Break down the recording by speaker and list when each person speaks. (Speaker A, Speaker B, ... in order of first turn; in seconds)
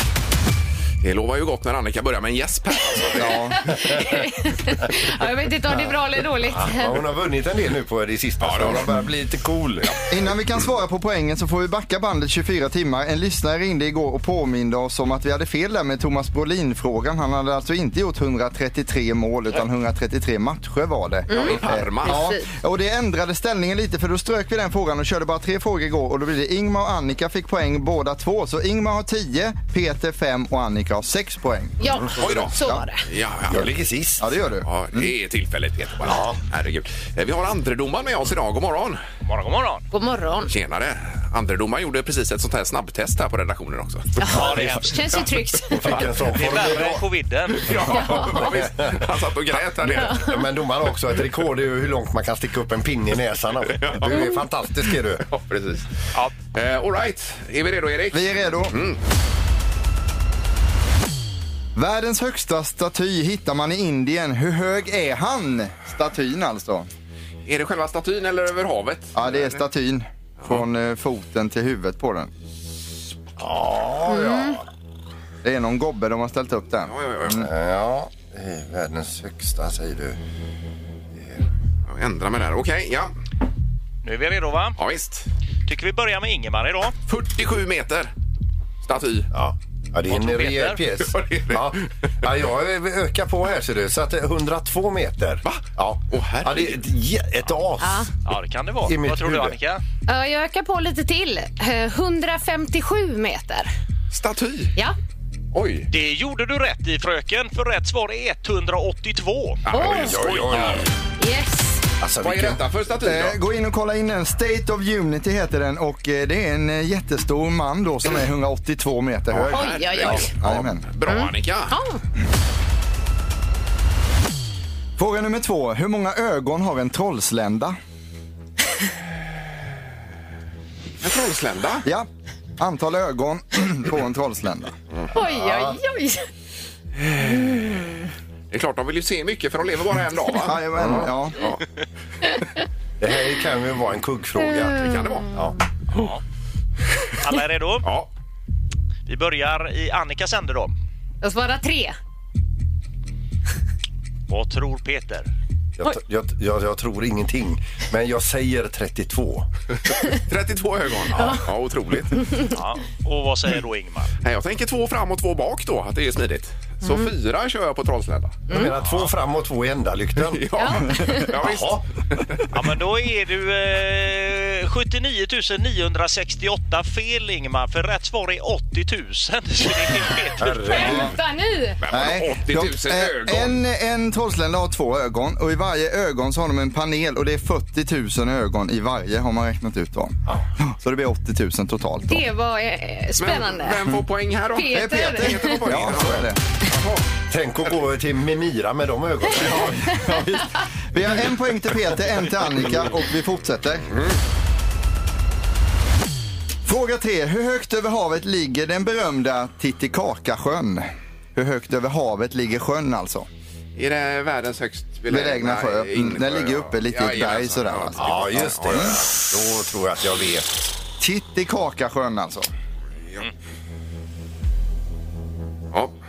Speaker A: 1.0-3.4, 8.4-8.9, 21.3-22.3, 32.2-32.5, 33.0-33.7, 34.6-39.0, 40.5-44.4, 47.6-50.2, 53.7-54.4, 55.2-56.0, 56.5-59.0, 67.5-69.6, 76.8-77.5, 81.9-83.1, 84.8-85.3, 87.1-88.1, 88.8-89.3, 91.1-91.9, 95.5-96.8, 104.1-104.7, 105.5-105.9, 109.7-110.9, 112.2-113.4, 119.3-121.8, 131.0-131.8, 137.0-138.0, 138.5-141.6, 144.7-145.3, 147.8-148.1, 159.9-162.3, 164.2-168.5, 170.3-172.5, 181.8-183.6, 193.2-197.0, 213.8-219.1
Speaker B: 3.2-3.6, 10.1-32.8, 34.2-35.1, 58.1-58.8, 61.8-66.9, 69.1-72.3, 75.4-77.5, 113.0-119.7, 120.2-120.8, 125.0-127.8, 131.8-134.8, 140.4-141.4, 181.9-192.2, 194.7-196.4, 199.4-203.9, 206.7-213.3, 215.1-219.0, 221.0-222.5
Speaker C: 3.6-7.0, 21.3-22.5, 31.8-33.0, 39.9-40.5, 44.2-46.0, 47.9-48.6, 49.9-50.4, 74.1-74.6, 97.8-98.1, 100.1-103.7, 109.7-110.2, 111.2-111.8, 119.5-120.3, 121.1-122.0, 135.1-136.3, 137.2-138.1, 144.7-145.2, 151.2-151.9, 166.8-167.1, 170.6-171.3, 180.6-181.8, 192.1-193.8, 194.6-195.7
Speaker D: 3.7-4.2, 6.5-9.9, 33.5-34.3, 36.0-36.4, 45.7-47.0, 48.0-49.1, 49.8-55.2, 73.4-74.6, 77.4-80.2, 81.2-81.4, 89.3-98.1, 98.8-99.6, 109.8-110.9, 112.0-112.6, 135.1-135.8, 140.8-141.1, 143.0-144.8, 155.8-159.5, 168.5-171.8, 180.4-181.2, 197.3-199.9, 218.0-220.6
Speaker E: 39.2-39.9, 44.3-45.0, 46.3-48.1, 84.0-84.8, 85.7-87.0, 90.1-90.8, 98.2-99.8, 105.9-109.7, 145.9-146.2, 147.2-147.9, 149.1-150.8, 154.3-155.3, 162.4-164.1, 172.5-180.9